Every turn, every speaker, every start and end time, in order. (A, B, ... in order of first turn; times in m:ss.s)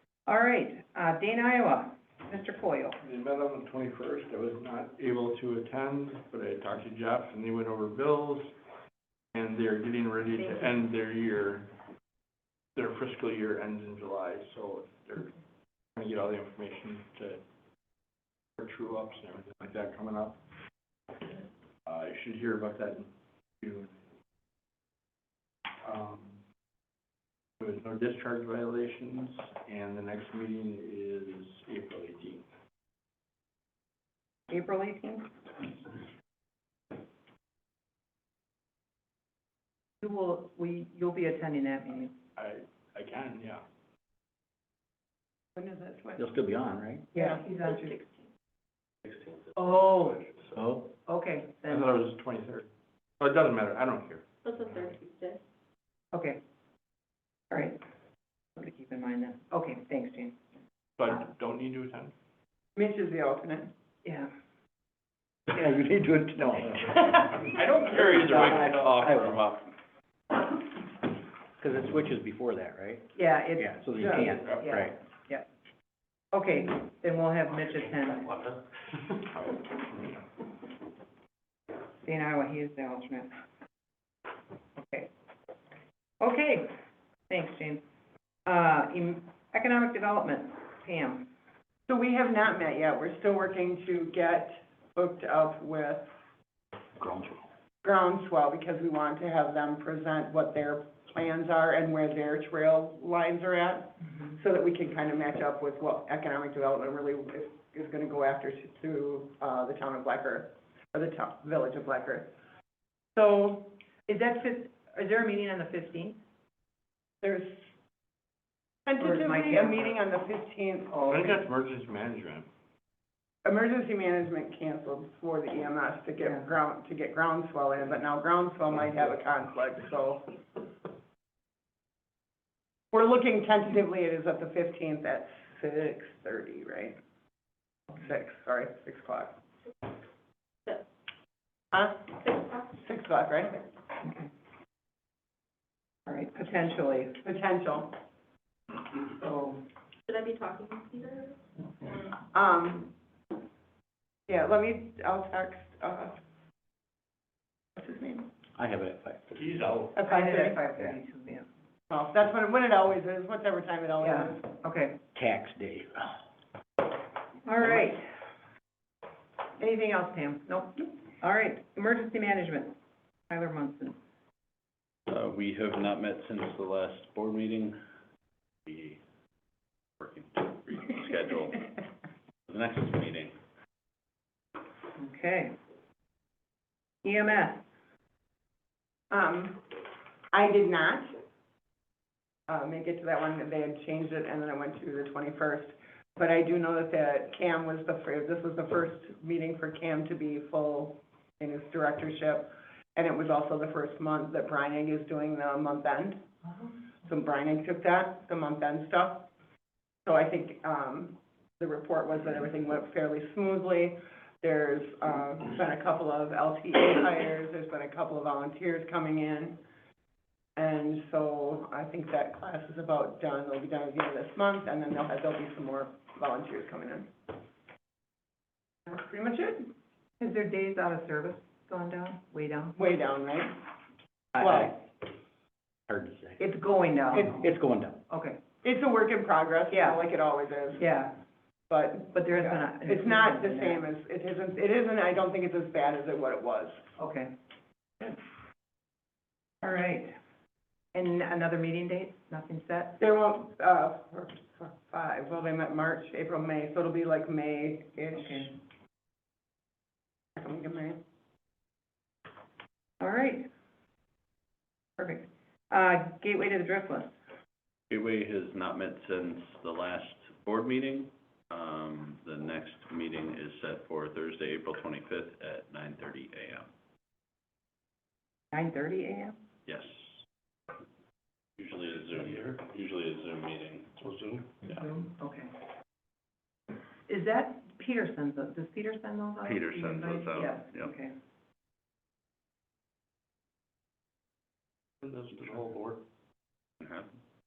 0:00.2-0:03.0 A
0:03.0-0:08.5 B
0:09.3-0:11.7 B
0:12.7-0:15.3 B
0:16.0-0:17.4 B
0:18.6-0:20.4 B
0:21.8-0:23.1 B
0:23.6-0:24.0 B
0:25.8-0:26.4 B
0:27.6-0:32.4 B
0:34.5-0:35.3 A
0:40.0-0:42.1 A
0:42.4-0:43.6 B
0:45.6-0:46.2 C
0:46.2-0:47.1 D
0:47.1-0:47.4 C
0:47.1-0:48.0 A
0:47.5-0:48.3 E
0:49.6-0:50.3 A
0:50.5-0:50.9 D
0:51.1-0:51.9 A
0:51.6-0:52.7 B
0:53.2-0:54.2 B
0:54.4-0:55.4 E
0:56.1-0:56.4 A
0:57.5-0:57.8 A
0:58.6-1:00.4 A
1:01.0-1:02.1 B
1:02.8-1:03.7 C
1:04.0-1:04.3 A
1:05.5-1:09.4 D
1:07.6-1:09.5 F
1:11.6-1:15.0 D
1:13.1-1:15.4 A
1:16.3-1:18.4 A
1:19.2-1:20.2 B
1:22.0-1:23.3 A
1:24.8-1:25.1 A
1:26.2-1:26.7 A
1:27.3-1:27.8 A
1:28.4-1:31.3 A
1:31.9-1:36.1 C
1:37.0-1:37.4 D
1:37.8-1:52.3 C
1:53.2-1:53.7 C
1:54.1-1:56.2 A
1:57.2-1:57.6 C
1:58.8-2:00.9 C
1:59.0-2:00.0 A
2:00.9-2:01.3 A
2:01.1-2:02.5 B
2:03.4-2:10.4 C
2:12.9-2:17.0 C
2:17.9-2:19.4 C
2:21.7-2:23.6 C
2:22.2-2:22.6 E
2:24.0-2:24.3 A
2:26.0-2:27.2 A
2:27.2-2:27.9 C
2:29.2-2:29.6 A
2:30.1-2:31.4 E
2:32.2-2:32.9 C
2:34.3-2:36.2 C
2:37.8-2:38.3 C
2:38.6-2:39.4 D
2:39.4-2:39.9 B
2:39.9-2:40.6 C
2:40.0-2:41.4 A
2:41.9-2:44.4 C
2:44.0-2:45.0 A
2:45.1-2:46.2 D
2:47.4-2:48.0 A
2:49.6-2:52.7 A
2:53.3-2:54.0 A
2:55.1-2:57.8 F
2:58.6-2:59.0 F
3:00.0-3:01.7 F
3:02.5-3:03.4 F
3:05.0-3:05.5 A
3:07.0-3:07.6 A
3:09.1-3:09.6 C
3:10.3-3:11.1 C
3:12.5-3:26.2 C
3:27.1-3:29.3 C
3:30.0-3:39.6 C
3:40.6-3:47.1 C
3:48.8-3:49.7 C
3:50.2-3:52.8 A
3:52.8-3:53.6 C
3:54.4-3:54.7 C
3:54.4-3:54.9 D
3:55.9-3:56.4 D
3:56.4-3:57.4 A
3:57.1-3:58.0 D
3:58.1-3:58.4 A
3:58.6-4:00.8 C
3:59.7-4:00.0 A
4:00.8-4:01.1 A
4:01.7-4:06.8 C
4:02.1-4:03.8 A
4:07.0-4:07.3 A
4:09.6-4:10.2 A
4:10.9-4:13.0 A
4:13.0-4:18.5 C
4:18.1-4:18.6 A
4:20.4-4:21.0 C
4:23.0-4:23.5 A
4:25.0-4:27.1 A
4:27.9-4:36.7 F
4:38.5-4:39.4 A
4:39.6-4:40.1 F
4:41.6-4:44.8 F
4:44.7-4:45.5 A
4:47.1-4:51.1 A
4:49.4-4:50.9 F
4:55.0-4:56.0 B
4:56.8-4:57.1 F